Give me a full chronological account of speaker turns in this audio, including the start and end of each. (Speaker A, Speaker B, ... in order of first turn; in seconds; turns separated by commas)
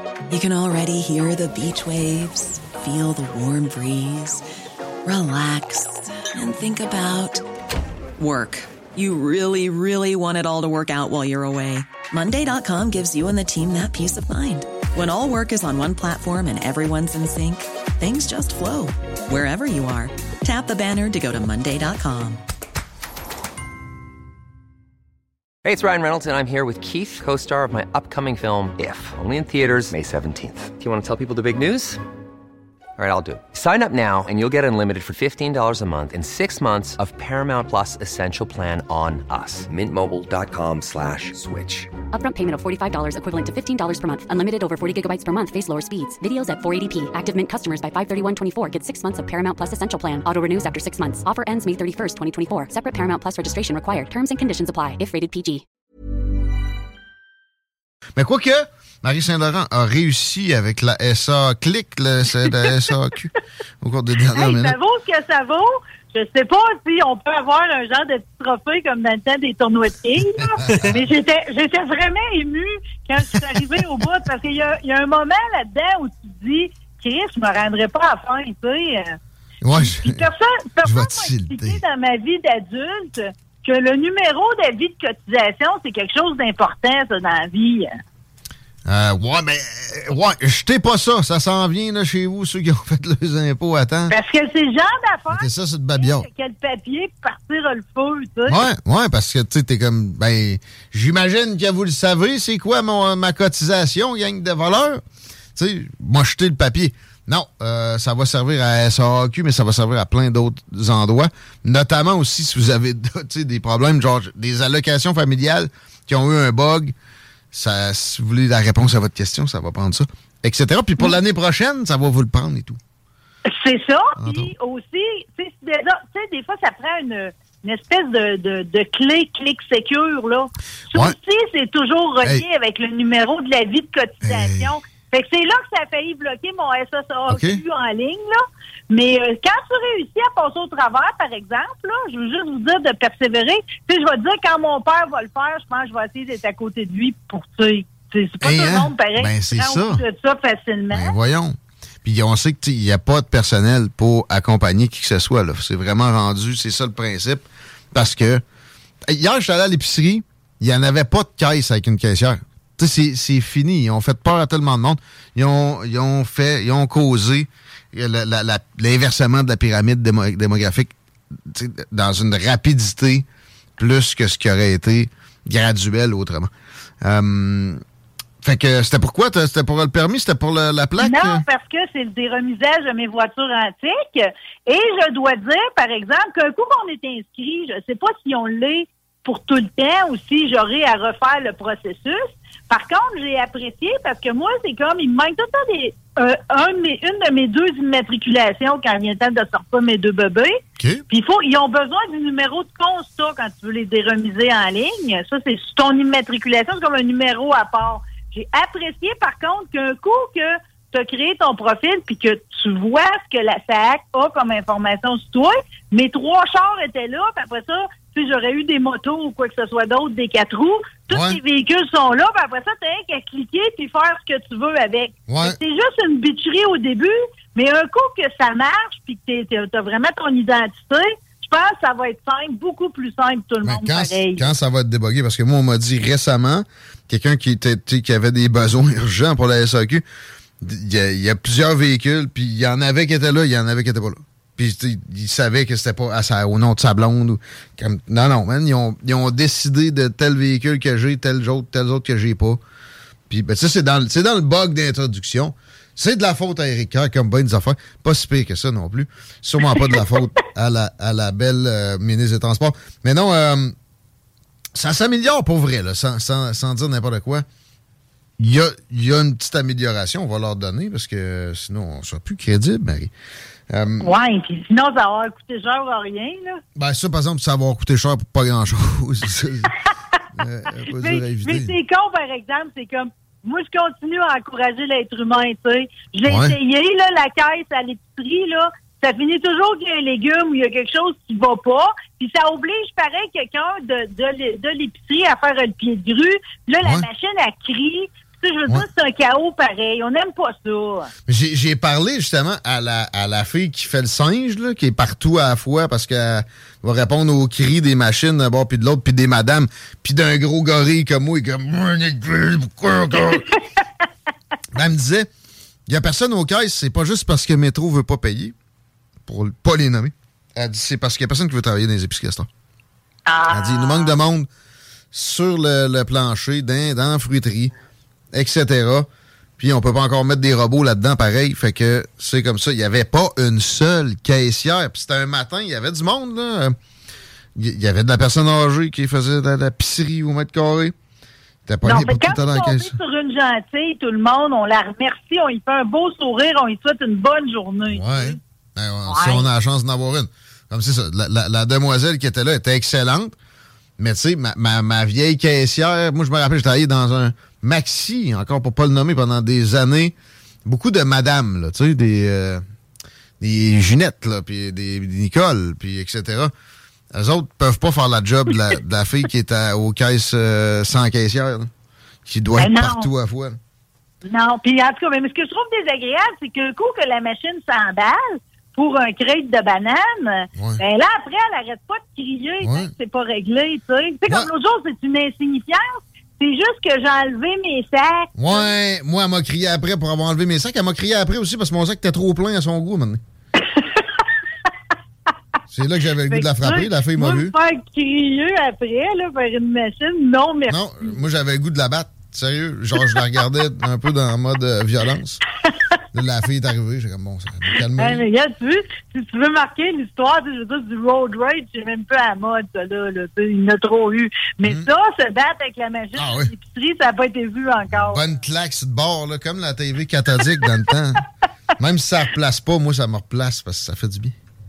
Speaker A: 0.3-4.4, Speaker A: 5.0-7.4, Speaker A: 8.2-22.4, Speaker B: 25.6-32.0, Speaker B: 33.0-41.9, Speaker C: 42.1-55.6, Speaker D: 58.2-63.3, Speaker D: 63.8-64.8, Speaker E: 64.3-79.2, Speaker D: 70.2-71.0, Speaker D: 79.6-80.3, Speaker E: 79.7-88.0, Speaker D: 80.8-81.8, Speaker D: 88.8-94.1, Speaker E: 94.1-98.6, Speaker D: 95.3-96.3, Speaker D: 98.5-105.0, Speaker D: 105.6-117.0, Speaker D: 117.5-122.8, Speaker E: 123.5-151.1, Speaker D: 124.2-124.5, Speaker D: 134.2-134.7, Speaker D: 137.3-137.6, Speaker D: 148.4-150.0, Speaker D: 150.9-158.4, Speaker D: 159.1-173.3, Speaker D: 173.8-177.8, Speaker D: 178.4-181.4, Speaker E: 181.0-200.6, Speaker E: 201.1-234.4, Speaker D: 221.1-221.4, Speaker D: 225.3-225.6, Speaker D: 233.6-240.0, Speaker D: 240.6-252.6, Speaker D: 253.3-263.8, Speaker D: 264.8-267.4, Speaker D: 268.4-273.1, Speaker D: 273.7-274.1, Speaker E: 274.0-276.6, Speaker D: 276.8-279.7, Speaker D: 280.3-281.8, Speaker E: 281.0-301.1, Speaker D: 286.3-286.6, Speaker D: 301.3-313.5, Speaker D: 314.7-315.3, Speaker D: 315.9-318.5, Speaker D: 319.2-322.5, Speaker E: 323.3-324.2, Speaker D: 323.5-324.5, Speaker D: 325.1-327.7, Speaker D: 328.3-329.1, Speaker D: 329.6-336.8, Speaker D: 337.6-340.9, Speaker D: 341.6-343.0, Speaker E: 341.8-348.4, Speaker D: 347.9-353.4, Speaker E: 349.1-349.5, Speaker D: 354.0-362.6, Speaker D: 363.4-366.5, Speaker D: 367.1-371.7, Speaker D: 372.2-373.6, Speaker E: 372.6-373.1, Speaker E: 374.2-388.7, Speaker D: 382.6-382.9, Speaker D: 388.4-393.2, Speaker E: 393.7-394.0, Speaker D: 395.7-397.5, Speaker E: 396.3-401.1, Speaker D: 400.7-405.4, Speaker D: 406.1-408.2, Speaker E: 407.8-418.2, Speaker D: 416.2-416.5, Speaker D: 417.9-421.2, Speaker D: 421.8-424.3